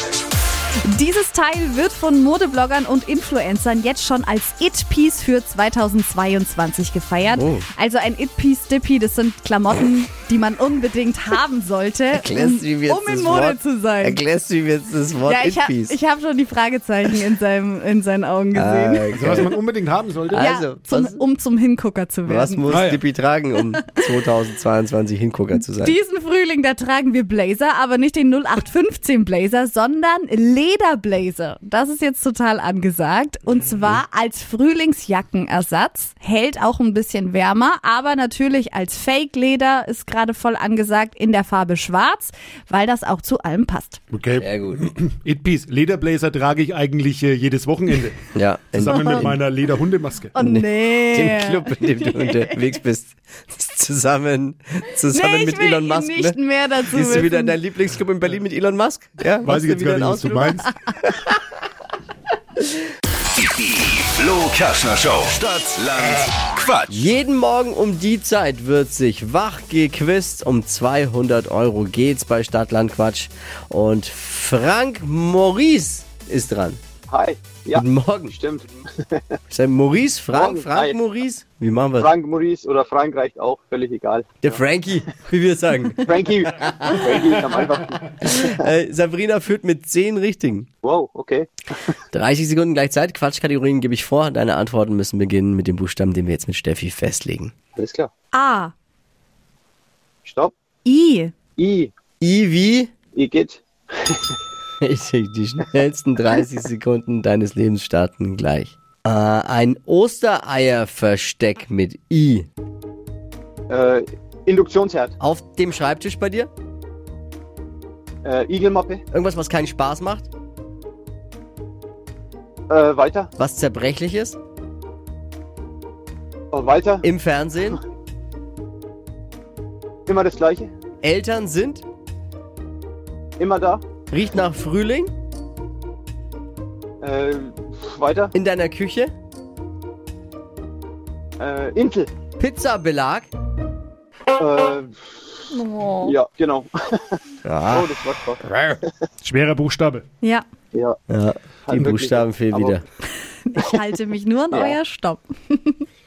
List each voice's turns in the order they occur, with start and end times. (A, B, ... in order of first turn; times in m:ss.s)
0:00.8-0:14.2 A
0:07.3-0:07.6 B
0:12.1-0:16.0 B
0:15.2-0:19.5 A
0:18.5-0:19.5 B
0:19.1-0:20.5 C
0:20.3-0:21.2 B
0:20.4-0:22.6 A
0:22.2-0:26.0 B
0:22.7-0:23.0 C
0:25.8-0:44.0 A
0:44.1-0:50.3 C
0:44.4-0:44.9 B
0:48.4-0:49.4 B
0:48.9-0:49.2 A
0:50.3-0:52.6 A
0:50.4-1:01.4 B
0:55.1-0:57.6 A
0:59.4-1:00.7 C
1:03.4-1:07.1 D
1:06.9-1:16.8 B
1:17.1-1:19.2 E
1:17.7-1:18.3 B
1:19.5-1:22.1 B
1:20.3-1:21.0 E
1:22.0-1:24.6 E
1:24.4-1:27.2 B
1:26.0-1:28.4 E
1:28.2-1:30.7 B
1:30.8-1:31.5 E
1:32.1-1:37.5 B
1:37.8-1:38.1 E
1:38.3-1:38.7 A
1:40.2-1:40.5 E
1:40.8-1:41.3 A
1:41.6-1:41.9 E
1:42.2-1:42.9 B
1:43.1-1:44.4 E
1:44.8-1:52.5 B
1:53.7-1:55.2 E
1:55.2-1:56.5 B
1:58.2-1:59.0 E
1:59.1-2:00.3 B
2:02.7-2:03.3 E
2:03.4-2:04.4 B
2:06.5-2:07.1 E
2:07.0-2:07.8 B
2:10.1-2:10.7 E
2:11.0-2:11.8 B
2:13.4-2:13.8 E
2:14.1-2:15.1 B
2:17.0-2:18.3 E
2:18.3-2:19.1 B
2:21.4-2:22.1 E
2:22.4-2:23.3 B
2:24.4-2:24.9 E
2:25.6-2:26.1 A
2:26.0-2:27.2 E
2:27.5-2:27.9 B
2:27.7-2:28.8 E
2:29.2-2:30.1 C
2:31.1-2:32.8 B
2:31.6-2:32.8 E
2:33.5-2:35.8 A